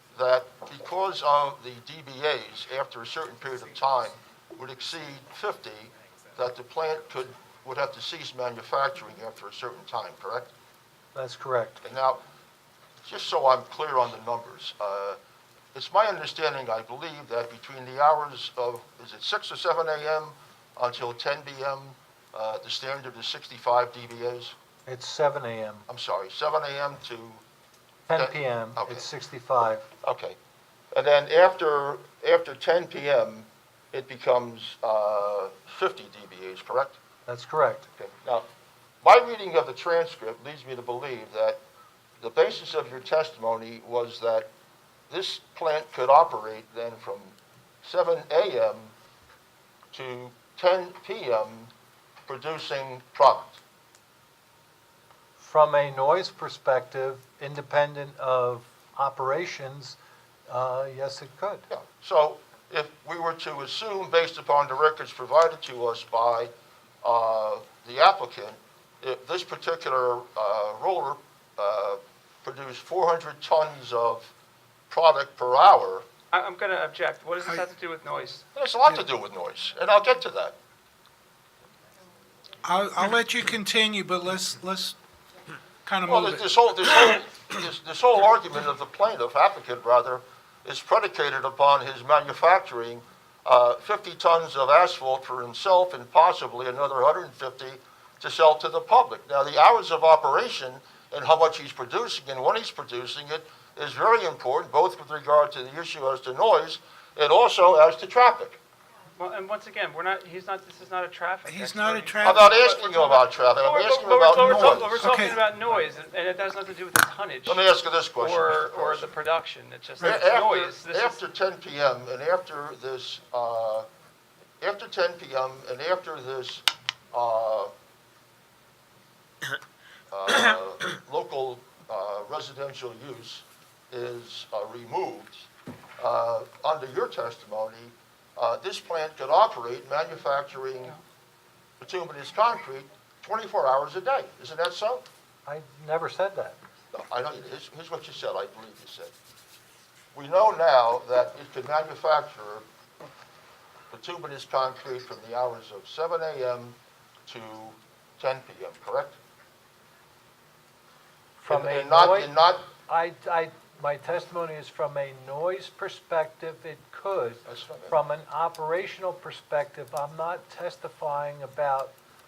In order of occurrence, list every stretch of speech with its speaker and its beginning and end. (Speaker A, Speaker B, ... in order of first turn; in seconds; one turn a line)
Speaker A: 0.1-10.5
Speaker B: 11.1-11.8
Speaker A: 11.8-12.2
Speaker A: 13.0-15.2
Speaker A: 15.7-24.5
Speaker B: 24.9-25.8
Speaker A: 25.9-27.4
Speaker B: 28.1-29.9
Speaker A: 28.1-29.1
Speaker A: 30.0-30.4
Speaker A: 30.9-37.0
Speaker B: 37.3-37.9
Speaker A: 38.0-38.5
Speaker A: 39.0-41.6
Speaker A: 42.2-44.5
Speaker A: 45.1-48.9
Speaker A: 49.9-51.7
Speaker A: 52.3-53.6
Speaker B: 55.4-61.6
Speaker A: 61.7-66.5
Speaker A: 67.0-74.3
Speaker A: 74.9-76.0
Speaker C: 76.3-78.4
Speaker A: 78.5-80.5
Speaker D: 82.6-85.0
Speaker D: 85.8-86.5
Speaker A: 86.1-108.6
Speaker C: 109.2-121.2
Speaker D: 111.5-112.6
Speaker A: 112.2-115.1
Speaker D: 114.3-115.4
Speaker A: 117.5-119.1
Speaker A: 120.0-123.9
Speaker A: 124.6-127.7
Speaker A: 130.1-135.4
Speaker A: 136.0-140.9
Speaker A: 141.8-145.1
Speaker B: 145.4-146.6
Speaker A: 146.9-149.1
Speaker A: 150.1-152.6
Speaker A: 153.9-159.2
Speaker B: 161.4-162.4
Speaker A: 161.5-162.7
Speaker B: 162.9-171.9
Speaker A: 167.4-168.0